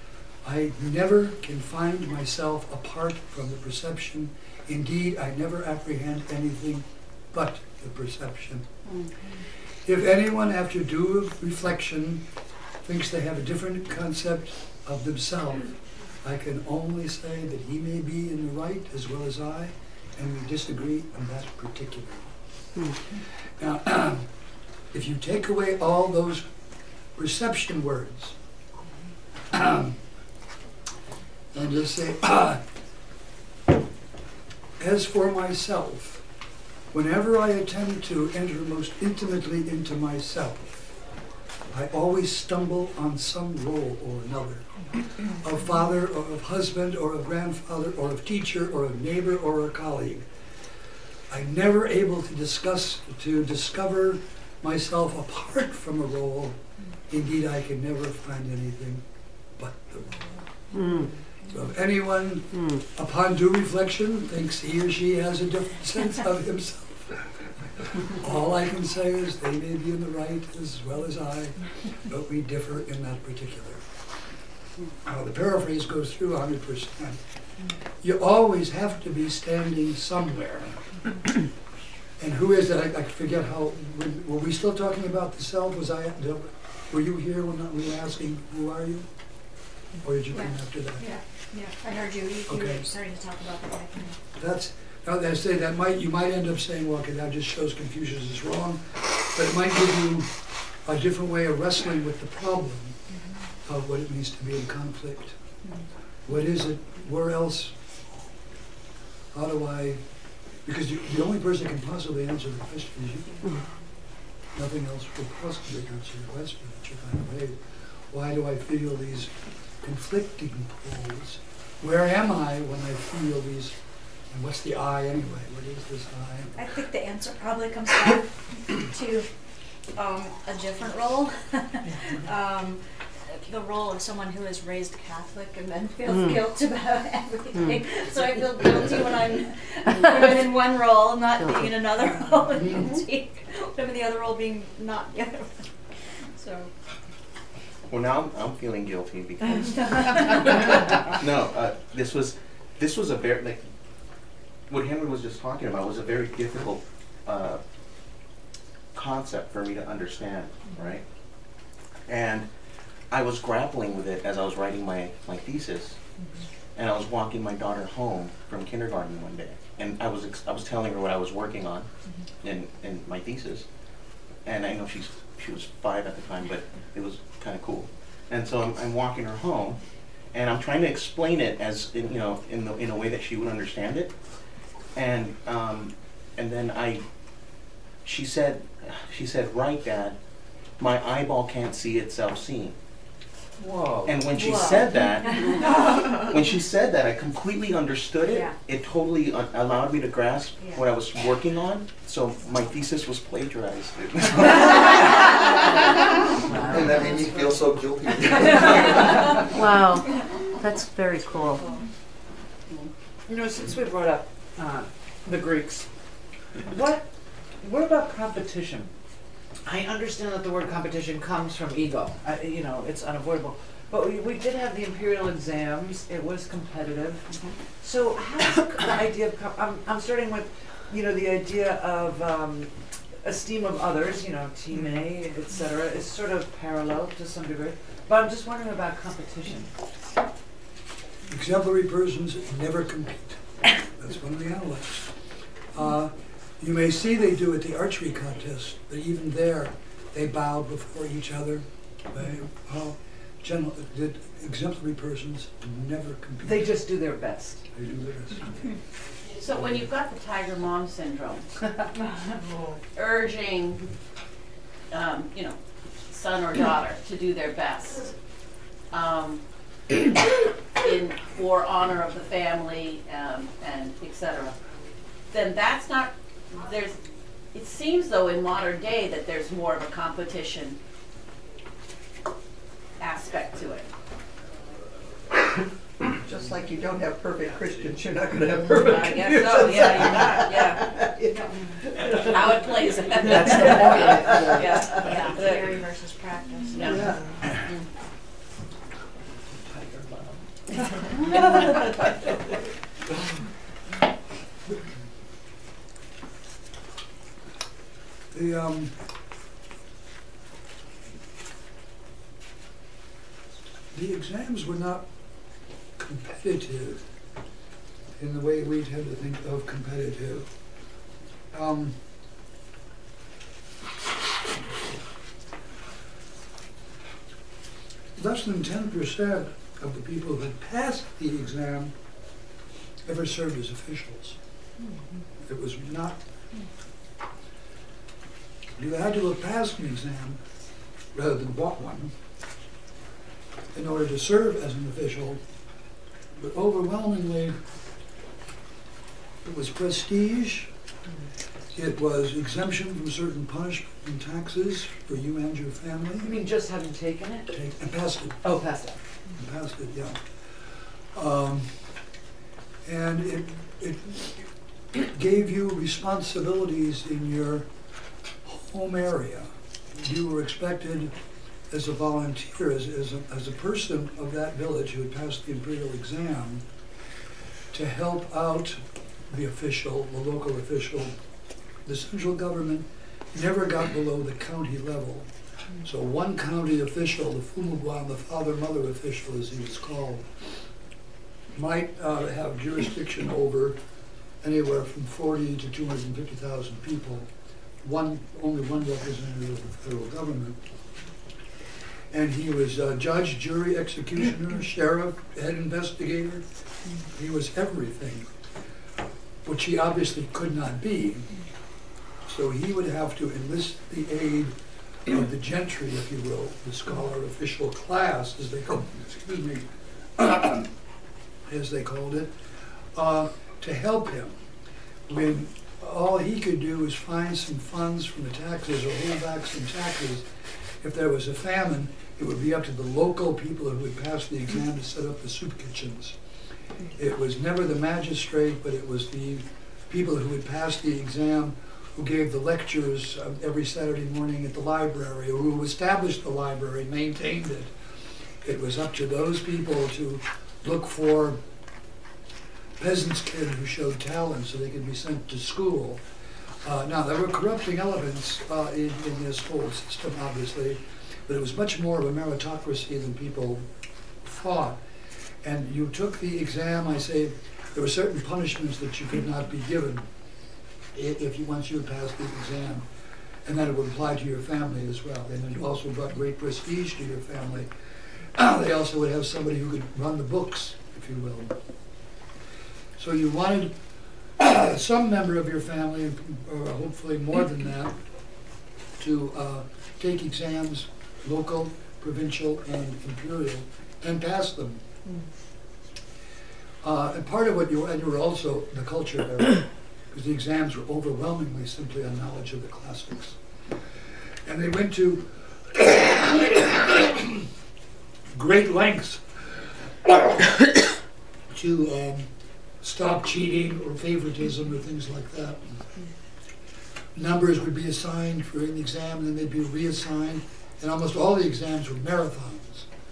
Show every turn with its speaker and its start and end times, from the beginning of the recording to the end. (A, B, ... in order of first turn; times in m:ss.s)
0:00.4-0:08.7 A
0:08.9-0:09.1 B
0:09.8-0:12.2 A
0:12.8-0:22.4 A
0:23.1-0:24.3 A
0:24.9-0:26.5 A
0:27.2-0:28.4 A
0:29.5-0:30.0 A
0:31.5-0:32.6 A
0:34.8-0:36.2 A
0:36.9-0:40.9 A
0:41.7-0:50.3 A
0:51.3-0:56.6 A
0:57.1-0:59.0 A
0:59.6-1:00.3 A
1:00.7-1:01.1 C
1:01.5-1:13.9 A
1:02.5-1:02.8 C
1:15.0-1:17.2 A
1:18.0-1:21.3 A
1:22.2-1:29.1 A
1:30.0-1:31.1 A
1:30.3-1:34.2 D
1:32.5-1:32.8 A
1:34.4-1:43.0 A
1:43.6-1:45.4 A
1:46.3-1:47.8 A
1:49.3-1:50.0 A
1:50.6-1:53.5 A
1:54.5-2:03.8 A
2:04.3-2:06.6 A
2:06.6-2:09.3 D
2:09.9-2:26.7 D
2:16.1-2:16.4 C
2:21.4-2:21.7 C
2:22.5-2:22.9 A
2:27.9-2:33.6 E
2:29.6-2:30.6 D
2:34.7-2:37.6 E
2:38.9-2:41.0 E
2:42.1-2:42.5 E
2:43.1-2:46.0 E
2:46.8-2:51.9 E
2:52.4-2:53.7 E
2:54.4-2:59.8 E
3:00.3-3:04.2 E
3:04.9-3:07.0 E
3:08.0-3:10.2 E
3:10.8-3:12.8 E
3:13.6-3:14.2 F
3:14.0-3:25.4 E
3:15.3-3:15.7 D
3:18.3-3:18.6 D
3:26.4-3:27.7 F
3:26.7-3:28.9 G
3:29.5-3:31.6 C
3:33.3-3:35.9 F
3:36.6-3:38.9 F
3:39.6-3:47.3 F
3:47.8-3:59.7 F
4:01.3-4:16.8 A
4:16.4-4:17.7 F
4:17.7-4:18.5 A
4:19.3-4:21.5 B
4:19.6-4:19.9 A
4:22.9-4:23.9 B
4:24.9-4:28.1 B
4:28.9-4:34.6 B
4:35.3-4:37.0 B
4:37.5-4:40.8 B
4:43.0-4:43.9 B
4:46.1-4:55.3 G
4:48.7-4:51.0 B
4:52.0-4:55.8 B
4:53.2-4:54.8 F
4:54.9-4:57.1 D
4:56.7-4:57.9 B
4:56.7-4:57.4 G
4:59.7-5:00.4 F
5:08.3-5:09.0 A
5:13.9-5:15.1 A
5:16.0-5:17.0 A
5:18.2-5:20.5 A
5:21.5-5:22.0 A
5:28.2-5:31.9 A
5:33.0-5:34.4 A
5:35.4-5:36.2 A
5:38.8-5:40.4 A
5:41.1-5:42.2 A
5:43.7-5:45.4 A
5:46.3-5:47.6 A
5:49.4-5:50.7 A
5:51.7-5:56.4 A
5:56.2-5:57.5 F
5:57.5-5:58.5 A
5:58.4-5:59.0 F
5:59.3-6:02.1 A
6:02.8-6:07.7 A
6:08.4-6:11.2 A
6:11.7-6:16.6 A
6:17.7-6:21.2 A
6:21.8-6:25.3 A
6:25.8-6:30.5 A
6:31.5-6:33.8 A
6:34.4-6:37.3 A
6:37.8-6:40.6 A
6:42.1-6:46.4 A
6:47.0-6:48.3 A
6:49.4-6:51.3 A
6:52.2-7:00.7 A
7:01.4-7:04.4 A
7:05.1-7:16.2 A
7:16.9-7:31.4 A
7:32.8-7:36.0 A
7:36.6-7:43.7 A
7:44.2-7:44.8 A
7:45.4-7:50.1 A
7:50.9-7:52.9 A
7:53.4-7:57.7 A
7:58.2-8:01.6 A
8:03.0-8:03.8 A
8:04.4-8:08.0 A
8:09.0-8:14.8 A
8:16.8-8:23.7 A
8:24.4-8:27.5 A
8:28.3-8:30.9 A
8:31.5-8:35.9 A
8:37.2-8:42.9 A